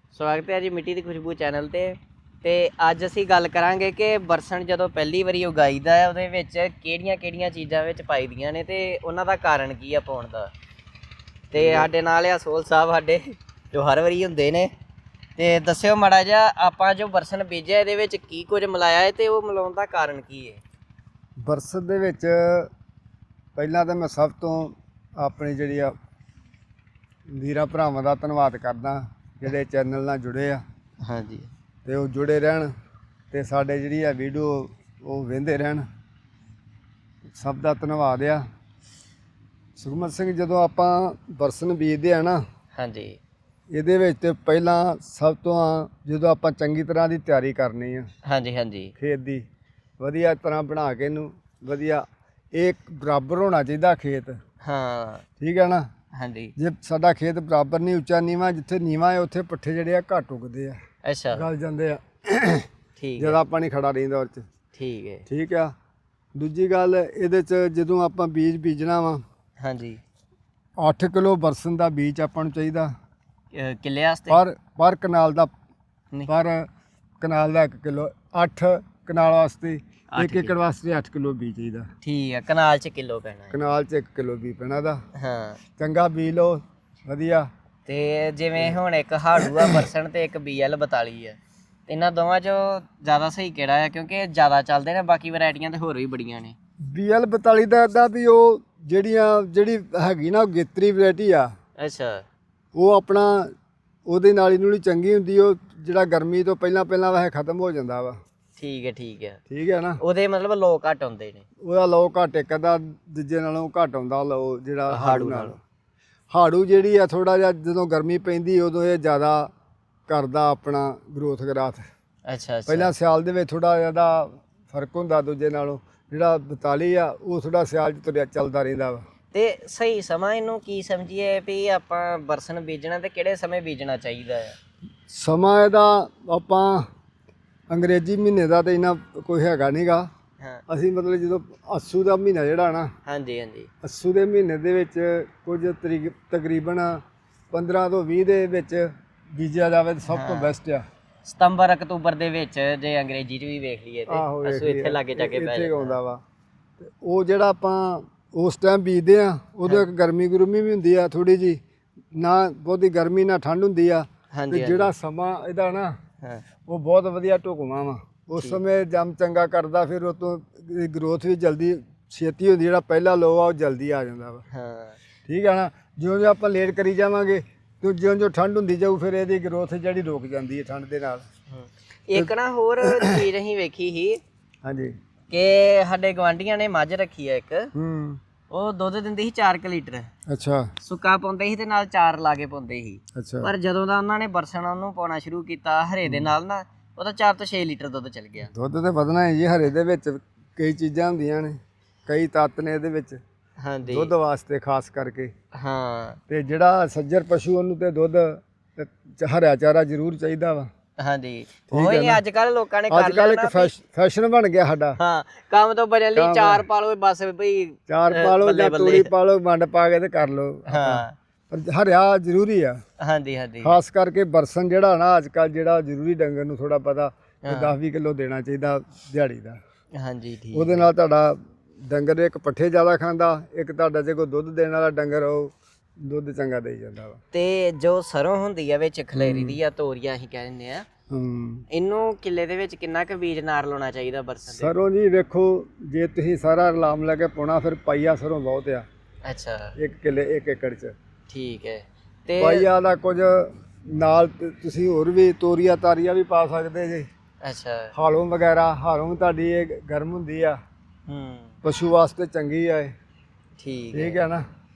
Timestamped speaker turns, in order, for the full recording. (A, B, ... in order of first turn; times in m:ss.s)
0:00.1-0:10.5 A
0:11.5-0:14.7 A
0:11.5-0:11.9 B
0:15.4-0:20.6 A
0:21.4-0:22.7 B
0:23.6-0:25.9 B
0:27.3-0:30.6 B
0:31.0-0:31.5 A
0:31.8-0:32.7 B
0:33.3-0:35.8 B
0:37.3-0:38.4 B
0:39.8-0:42.4 B
0:42.8-0:43.2 A
0:43.7-0:48.1 B
0:48.2-0:48.9 A
0:49.0-0:49.4 B
0:50.0-0:52.0 B
0:52.6-0:54.4 B
0:54.6-0:55.2 A
0:55.4-0:55.9 B
0:56.2-0:56.5 A
0:56.6-1:00.8 B
1:01.0-1:01.4 A
1:01.3-1:02.7 B
1:03.0-1:03.4 A
1:03.2-1:04.4 B
1:04.8-1:05.2 A
1:05.3-1:05.7 B
1:06.4-1:09.2 B
1:09.6-1:10.0 A
1:10.8-1:12.9 B
1:13.5-1:14.4 A
1:14.3-1:15.5 B
1:16.3-1:16.7 B
1:17.2-1:21.9 B
1:20.1-1:20.6 A
1:22.0-1:23.6 A
1:23.5-1:25.0 B
1:25.2-1:25.6 A
1:25.8-1:27.5 B
1:27.9-1:36.6 A
1:29.4-1:29.8 B
1:36.9-1:41.5 B
1:41.8-1:42.2 A
1:42.7-1:43.5 B
1:44.1-1:48.2 B
1:48.6-1:49.4 A
1:49.5-1:50.0 B
1:50.0-1:51.4 A
1:51.6-1:55.6 B
1:54.9-1:55.6 A
1:56.3-1:59.5 B
2:00.1-2:01.8 B
2:02.3-2:02.9 A
2:02.7-2:09.0 B
2:09.3-2:14.6 A
2:15.1-2:16.9 B
2:17.7-2:20.1 B
2:20.7-2:22.9 B
2:23.1-2:23.7 A
2:23.8-2:30.8 B
2:30.1-2:30.5 A
2:31.2-2:36.0 A
2:34.1-2:36.2 B
2:36.8-2:41.6 B
2:42.1-2:46.0 B
2:44.3-2:44.9 A
2:46.7-2:54.4 B
2:54.5-2:55.0 A
2:55.3-3:01.2 B
3:01.5-3:04.2 A
3:02.8-3:03.3 B
3:04.6-3:04.9 B
3:05.3-3:07.7 A
3:07.8-3:08.2 B
3:08.5-3:10.1 A
3:10.3-3:10.7 B
3:10.8-3:18.5 A
3:13.2-3:13.5 B
3:16.1-3:16.3 B
3:18.5-3:23.2 B
3:23.6-3:24.1 A
3:23.9-3:25.3 B
3:25.5-3:26.2 A
3:26.3-3:30.7 B
3:31.0-3:33.7 A
3:31.7-3:32.2 B
3:32.9-3:35.0 B
3:35.0-3:39.1 A
3:36.2-3:36.6 B
3:37.9-3:42.8 B
3:40.7-3:41.2 A
3:43.0-3:43.8 A
3:43.6-3:49.6 B
3:47.4-3:47.7 A
3:50.0-3:50.9 A
3:50.5-3:57.2 B
3:57.3-4:00.9 A
3:59.1-3:59.6 B
4:01.1-4:01.6 B
4:01.7-4:04.7 A
4:04.5-4:08.9 B
4:09.2-4:09.8 A
4:09.8-4:10.9 B
4:11.3-4:12.7 A
4:12.4-4:17.1 B
4:17.4-4:17.9 A
4:17.9-4:20.6 B
4:21.1-4:21.5 A
4:21.6-4:22.9 B
4:23.6-4:24.2 A
4:23.9-4:24.4 B